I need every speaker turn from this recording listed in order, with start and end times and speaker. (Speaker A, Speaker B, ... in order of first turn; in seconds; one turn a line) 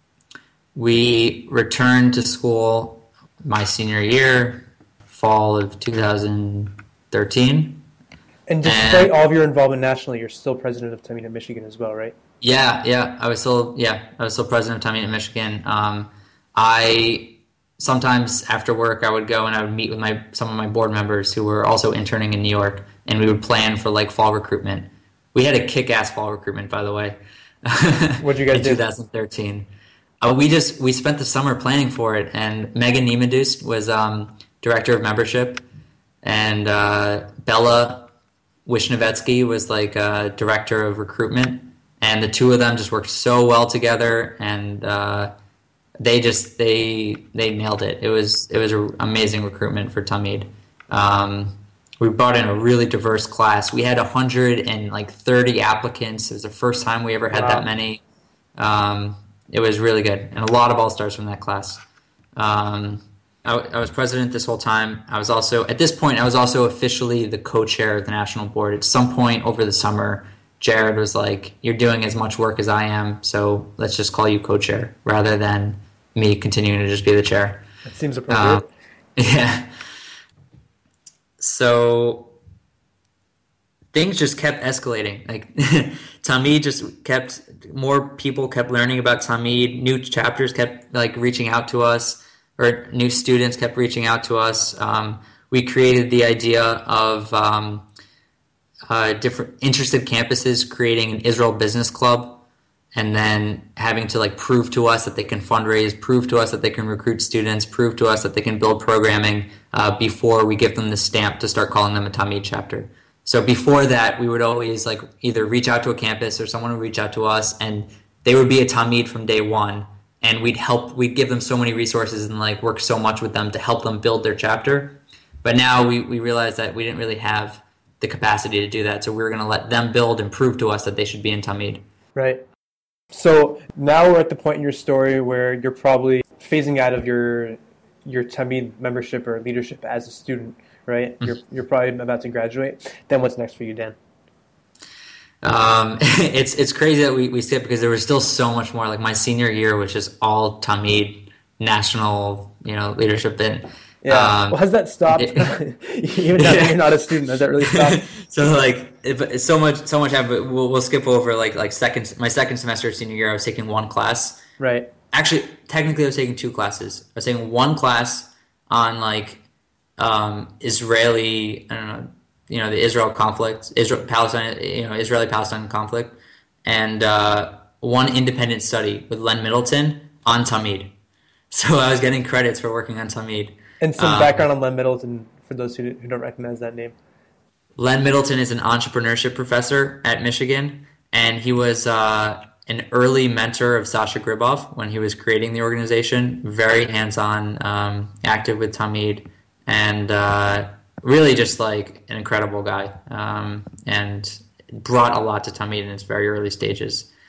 Speaker A: 0.8-7.8
Speaker B: 8.5-12.1
Speaker A: 8.6-9.1
Speaker A: 12.4-29.7
Speaker B: 28.2-28.8
Speaker A: 30.2-35.6
Speaker A: 36.2-38.1
Speaker A: 38.7-45.3
Speaker A: 46.0-58.0
Speaker B: 57.3-57.7
Speaker A: 58.6-61.8
Speaker A: 62.4-77.7
Speaker B: 77.8-78.7
Speaker A: 78.3-78.7
Speaker A: 79.2-79.7
Speaker A: 81.4-82.4
Speaker A: 83.9-97.9
Speaker A: 98.9-102.4
Speaker A: 103.0-131.8
Speaker B: 132.2-132.5
Speaker B: 133.1-144.0
Speaker A: 145.4-155.5
Speaker B: 154.0-158.0
Speaker A: 156.4-157.0
Speaker A: 157.6-164.4
Speaker B: 164.6-164.9
Speaker A: 165.1-169.4
Speaker A: 170.0-180.9
Speaker A: 181.5-184.5
Speaker B: 183.8-187.0
Speaker A: 187.8-207.1